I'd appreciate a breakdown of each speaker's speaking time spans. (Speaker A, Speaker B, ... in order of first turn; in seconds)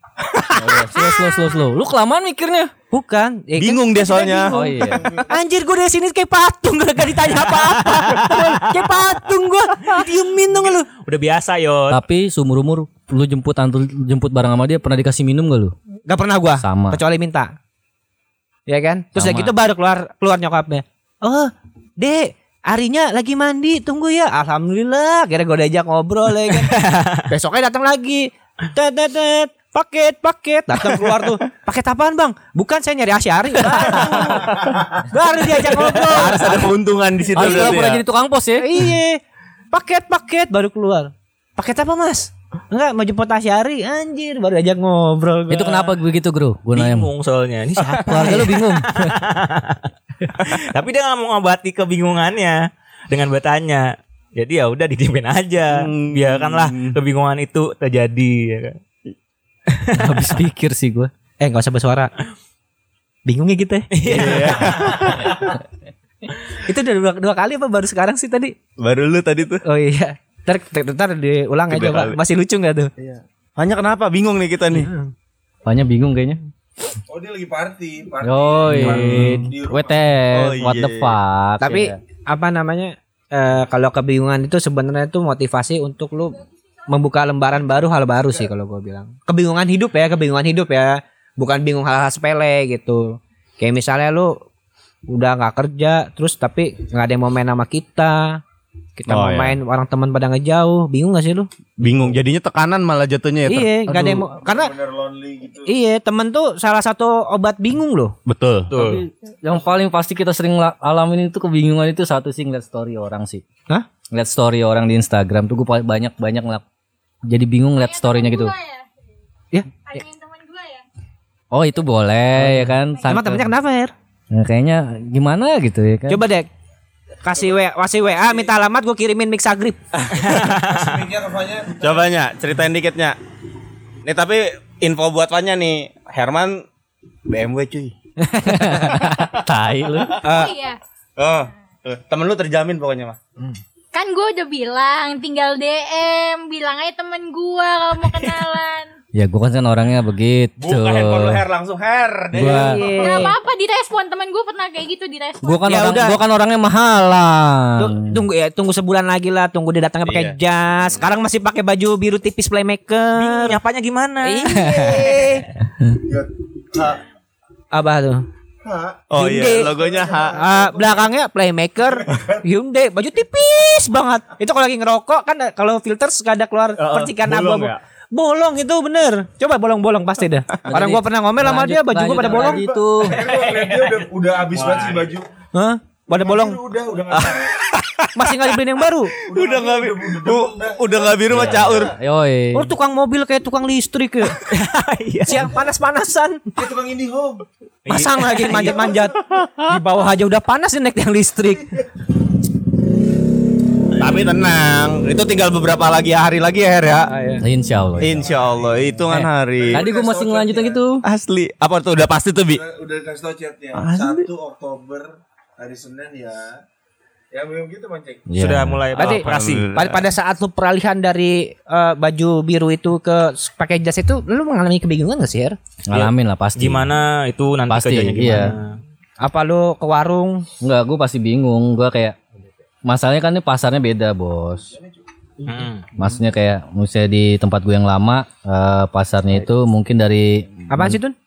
Speaker A: 0.6-2.7, 4.5-5.1, 11.9-15.7, 16.6-17.0, 19.2-19.5, 33.7-34.5, 37.3-38.8, 45.5-47.1, 47.8-49.2, 60.0-61.1, 75.7-76.4, 78.2-82.0, 103.9-104.2, 108.8-113.4, 114.1-116.6, 117.3-118.5, 121.5-123.5, 124.3-126.2, 138.5-140.2, 149.1-151.4, 152.3-152.8, 155.4-158.2, 180.7-183.2, 191.8-192.7, 207.4-208.3, 209.1-211.0, 218.3-218.8, 225.9-226.9, 227.7-228.6, 230.6-232.2, 232.9-234.7, 235.9-241.0
Speaker B: 2.9-10.9, 16.1-17.5, 18.7-26.7, 27.3-34.5, 35.1-36.7, 37.4-37.9, 38.6-39.2, 39.7-45.9, 61.4-62.1, 63.3-64.6, 66.5-68.5, 69.7-72.9, 74.7-75.1, 81.6-94.4, 95.1-98.4, 99.0-101.5, 103.5-104.7, 105.7-108.2, 122.4-123.9, 126.1-126.5, 127.2-129.8, 138.2-139.2, 140.2-140.6, 152.4-153.4, 155.7-156.2, 157.8-163.6, 164.2-165.5, 167.7-168.2, 169.2-169.8, 170.3-182.6, 185.5-186.6, 188.2-189.2, 192.6-194.4, 195.3-196.5, 197.9-201.7, 207.1-207.4, 219.0-225.6, 229.2-230.5, 240.7-241.2
Speaker C: 3.6-4.5, 35.9-38.0, 55.7-57.0, 64.0-65.4, 68.8-69.6, 71.7-72.2, 73.0-74.9, 78.9-79.3, 80.3-81.2, 99.1-99.6, 101.8-103.7, 108.3-108.7, 129.9-130.5, 131.8-133.2, 134.1-136.7, 137.3-137.9, 138.8-140.2, 141.2-143.2, 150.6-153.2, 160.1-160.4, 169.1-170.4, 176.8-177.8, 187.1-188.5, 189.3-191.9, 204.0-207.1, 208.0-209.8, 211.0-212.6, 213.8-214.3, 219.0-220.0
Speaker D: 10.9-12.0, 26.5-27.3, 46.7-58.8, 59.7-60.3, 63.9-65.4, 108.7-109.0, 130.1-131.1, 163.2-164.9, 183.1-185.1, 191.3-191.7, 194.5-195.5, 197.9-198.9, 218.4-219.8, 225.9-228.8, 235.5-235.8
Speaker E: 77.1-80.0, 104.3-105.7, 128.1-128.5, 130.7-132.1, 165.9-167.0, 168.6-169.1, 169.7-171.1, 172.0-172.4, 182.2-185.3, 186.1-187.6, 189.3-191.9, 196.6-197.5, 198.6-199.1, 208.0-208.8, 209.6-210.8, 212.5-216.6, 217.3-218.3
Speaker F: 117.7-118.9, 119.8-120.8, 140.3-140.8, 143.9-148.9, 153.0-155.7